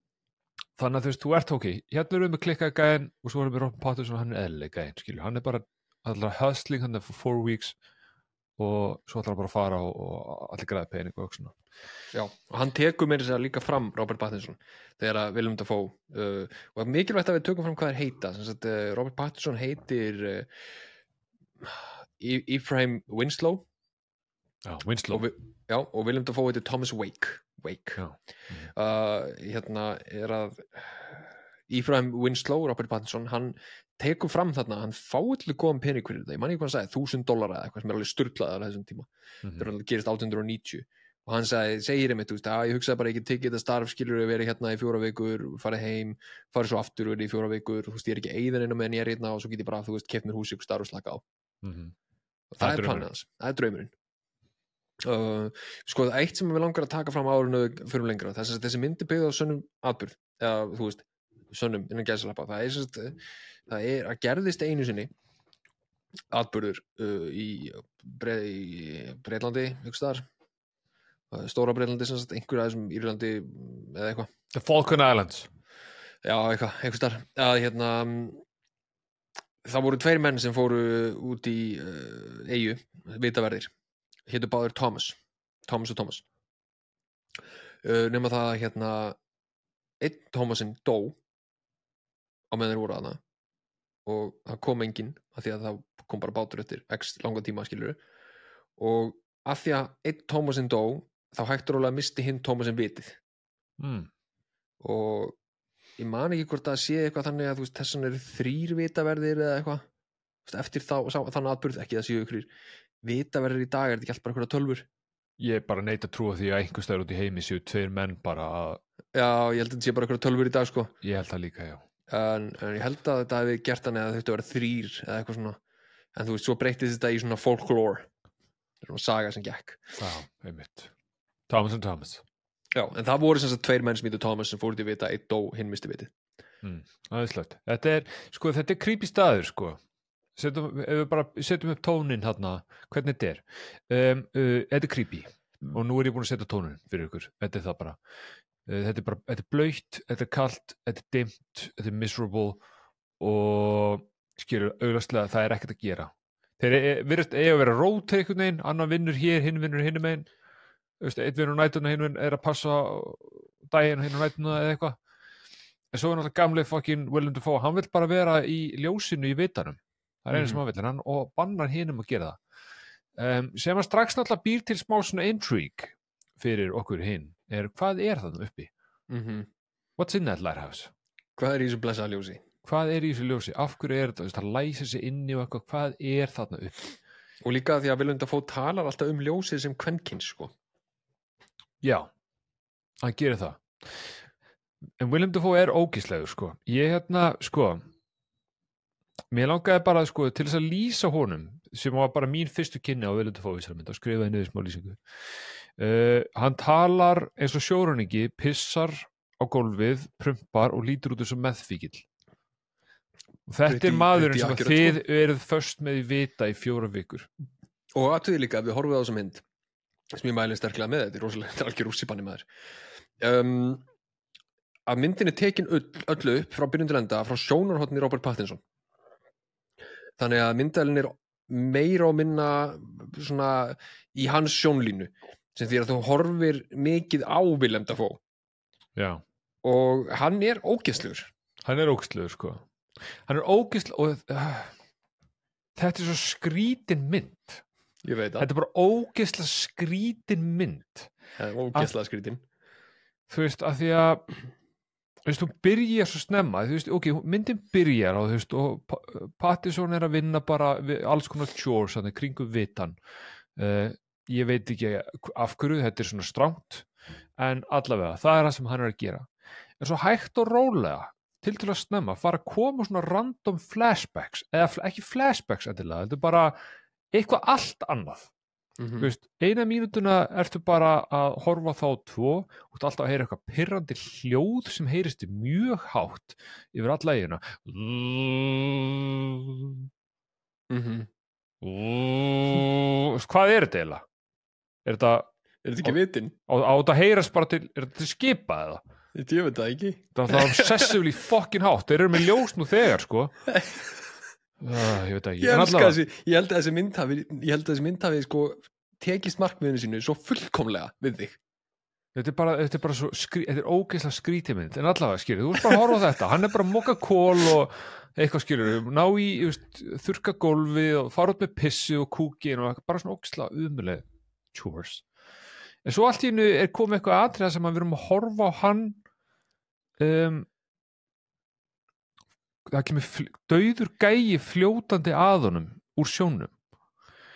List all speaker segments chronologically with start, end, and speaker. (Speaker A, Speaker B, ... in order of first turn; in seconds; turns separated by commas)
Speaker A: 0.8-7.7, Speaker A: 8.6-11.6, Speaker B: 12.1-20.5, Speaker B: 21.6-23.6, Speaker A: 24.6-25.2, Speaker B: 25.1-28.0, Speaker A: 28.0-28.7, Speaker B: 28.7-51.2, Speaker A: 51.6-51.9, Speaker B: 52.5-53.9, Speaker A: 52.6-53.1, Speaker B: 55.0-63.2, Speaker B: 63.7-65.1, Speaker B: 66.3-70.2, Speaker B: 71.3-74.3, Speaker A: 74.5-75.5, Speaker B: 76.2-78.4, Speaker B: 79.6-83.7, Speaker B: 84.3-86.2, Speaker B: 87.8-89.2, Speaker B: 90.0-91.2, Speaker B: 92.5-93.2, Speaker B: 94.0-98.0, Speaker B: 98.8-103.2, Speaker A: 103.8-104.1, Speaker B: 104.8-105.3, Speaker B: 106.0-109.8, Speaker B: 110.5-112.5, Speaker B: 113.0-114.9, Speaker A: 115.4-118.8, Speaker B: 119.1-120.9, Speaker A: 121.0-121.8, Speaker B: 122.1-125.6, Speaker B: 126.1-128.1, Speaker B: 128.8-129.8, Speaker A: 130.0-130.9, Speaker A: 131.5-132.2, Speaker B: 132.7-136.1, Speaker A: 136.6-139.8, Speaker A: 140.3-148.0, Speaker A: 148.7-152.6, Speaker A: 153.2-160.3, Speaker A: 161.0-165.0, Speaker A: 165.9-172.4, Speaker B: 170.3-170.6, Speaker A: 173.2-178.7, Speaker B: 179.1-179.5, Speaker A: 180.0-180.9, Speaker B: 181.4-182.4, Speaker A: 182.6-186.9, Speaker B: 187.4-190.5, Speaker A: 191.8-192.1, Speaker A: 193.0-194.1, Speaker A: 195.0-197.8, Speaker A: 199.3-205.0, Speaker A: 205.8-212.0, Speaker A: 213.5-217.3, Speaker B: 213.7-215.0, Speaker B: 217.9-219.4, Speaker B: 220.1-222.4, Speaker B: 223.2-223.8, Speaker B: 224.9-228.6, Speaker B: 230.2-238.2, Speaker A: 238.9-239.2, Speaker B: 239.6-241.3, Speaker A: 241.6-242.6, Speaker A: 243.3-244.7, Speaker A: 245.8-247.6, Speaker B: 248.0-248.5, Speaker A: 248.4-251.1, Speaker B: 251.4-252.4, Speaker A: 253.3-254.2, Speaker A: 255.2-263.0, Speaker A: 263.6-266.8, Speaker A: 267.4-269.3, Speaker A: 269.8-276.6, Speaker A: 277.1-278.3, Speaker B: 278.8-279.1, Speaker A: 279.0-289.9, Speaker B: 290.7-291.1, Speaker A: 291.6-294.0, Speaker A: 294.8-295.3, Speaker B: 295.6-296.3, Speaker A: 295.8-298.8, Speaker B: 299.1-300.9, Speaker A: 300.1-303.3, Speaker B: 303.5-303.8, Speaker A: 304.6-306.0, Speaker B: 305.4-311.4, Speaker A: 312.1-325.0, Speaker A: 325.8-329.0, Speaker A: 330.0-330.5, Speaker A: 332.7-336.5